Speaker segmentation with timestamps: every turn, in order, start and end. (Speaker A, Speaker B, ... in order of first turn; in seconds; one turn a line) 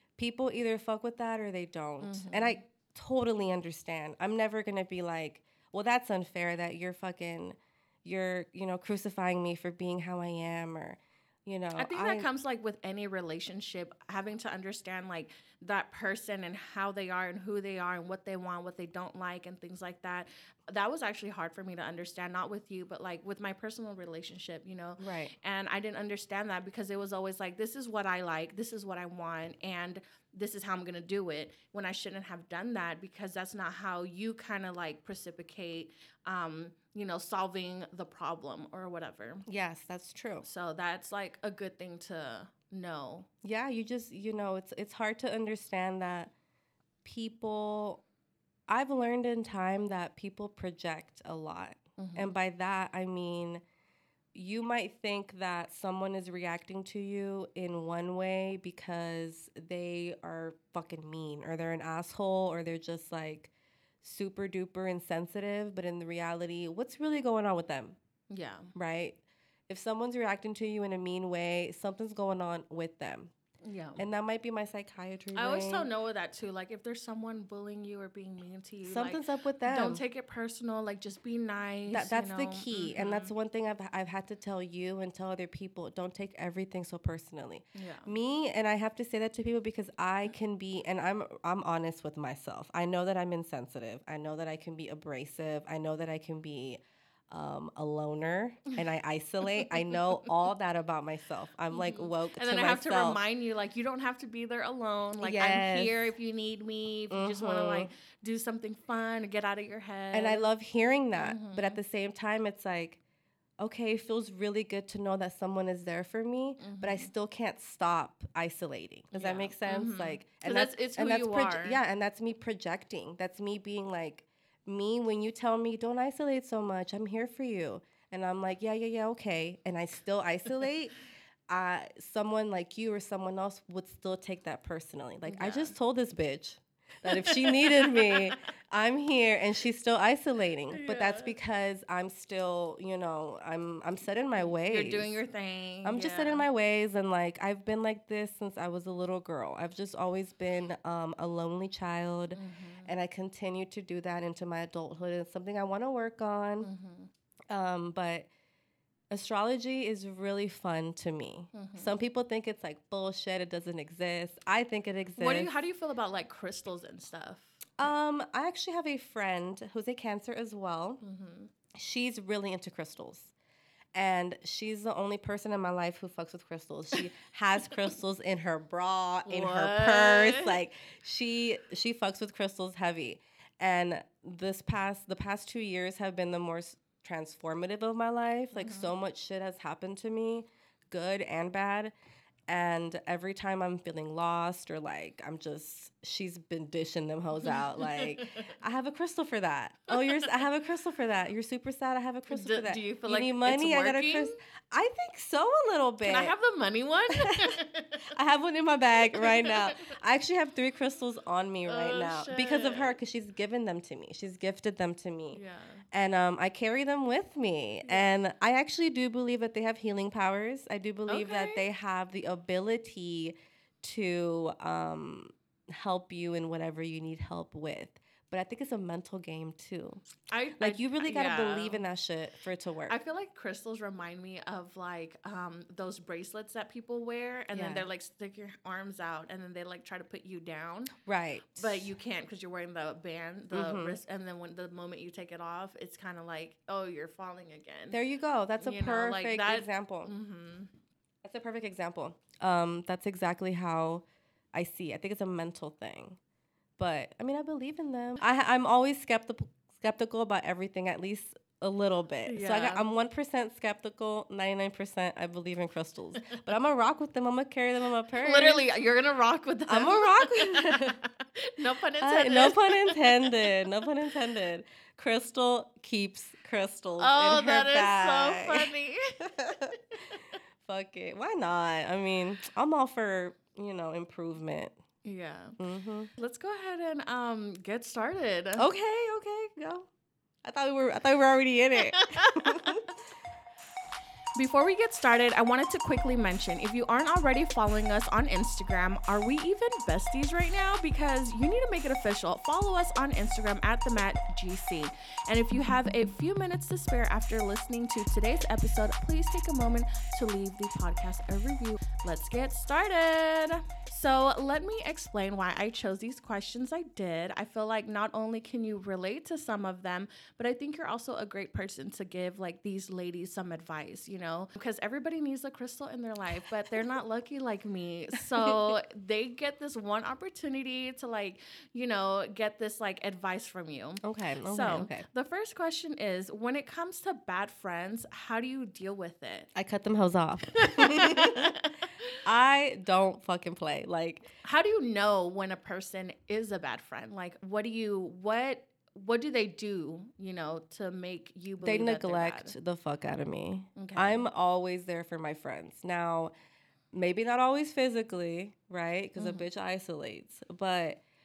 Speaker A: 0.2-12.3
Speaker B: 2.0-2.6
Speaker B: 11.8-39.5
Speaker A: 25.0-25.3
Speaker A: 39.5-40.5
Speaker B: 40.4-43.3
Speaker A: 43.4-46.3
Speaker A: 47.0-48.0
Speaker A: 48.7-53.6
Speaker B: 52.0-52.3
Speaker A: 54.3-63.5
Speaker A: 64.0-68.0
Speaker B: 68.3-68.7
Speaker A: 68.8-73.3
Speaker B: 73.6-74.0
Speaker A: 74.0-75.9
Speaker B: 75.3-83.3
Speaker A: 78.8-80.0
Speaker A: 81.9-103.2
Speaker B: 87.8-88.1
Speaker B: 101.7-110.5
Speaker A: 105.2-106.1
Speaker A: 107.1-107.9
Speaker A: 110.1-113.0
Speaker B: 111.1-111.8
Speaker A: 113.6-130.9
Speaker B: 116.6-117.1
Speaker B: 119.1-121.8
Speaker A: 131.5-145.2
Speaker B: 135.2-135.8
Speaker B: 137.1-138.4
Speaker B: 140.7-141.3
Speaker B: 144.4-146.4
Speaker A: 145.8-156.7
Speaker B: 152.3-152.9
Speaker B: 156.6-157.1
Speaker A: 157.5-158.3
Speaker A: 159.1-165.5
Speaker B: 161.5-161.9
Speaker B: 165.2-167.7
Speaker A: 167.8-171.0
Speaker B: 171.0-171.5
Speaker A: 171.8-173.3
Speaker A: 173.9-191.9
Speaker B: 179.3-180.6
Speaker B: 188.6-188.9
Speaker A: 192.5-206.3
Speaker B: 197.4-198.6
Speaker B: 199.9-200.3
Speaker B: 202.3-204.4
Speaker B: 206.0-208.0
Speaker A: 207.1-207.6
Speaker A: 208.1-215.4
Speaker B: 209.1-209.9
Speaker B: 211.7-213.0
Speaker B: 215.3-215.8
Speaker A: 215.9-230.1
Speaker B: 217.8-218.1
Speaker B: 221.1-221.6
Speaker B: 230.3-231.8
Speaker A: 230.6-233.0
Speaker B: 232.9-240.9
Speaker A: 237.5-237.9
Speaker A: 241.0-241.9
Speaker B: 241.6-248.0
Speaker A: 243.5-244.0
Speaker A: 247.9-250.1
Speaker B: 248.6-250.7
Speaker A: 251.2-256.2
Speaker A: 256.8-268.7
Speaker B: 262.3-262.8
Speaker B: 268.2-273.6
Speaker A: 269.7-271.0
Speaker A: 272.0-279.8
Speaker B: 277.0-279.2
Speaker B: 279.9-280.3
Speaker A: 280.6-284.8
Speaker B: 285.0-285.6
Speaker A: 285.6-286.1
Speaker B: 286.2-288.7
Speaker A: 288.6-289.9
Speaker A: 290.4-292.8
Speaker B: 291.9-292.9
Speaker B: 294.4-339.5
Speaker A: 328.4-328.8
Speaker A: 334.0-335.1
Speaker A: 339.6-341.6
Speaker B: 340.6-342.1
Speaker A: 342.2-344.2
Speaker B: 344.4-352.5
Speaker A: 351.6-356.3
Speaker B: 353.8-354.3
Speaker A: 356.9-361.0
Speaker B: 359.2-359.4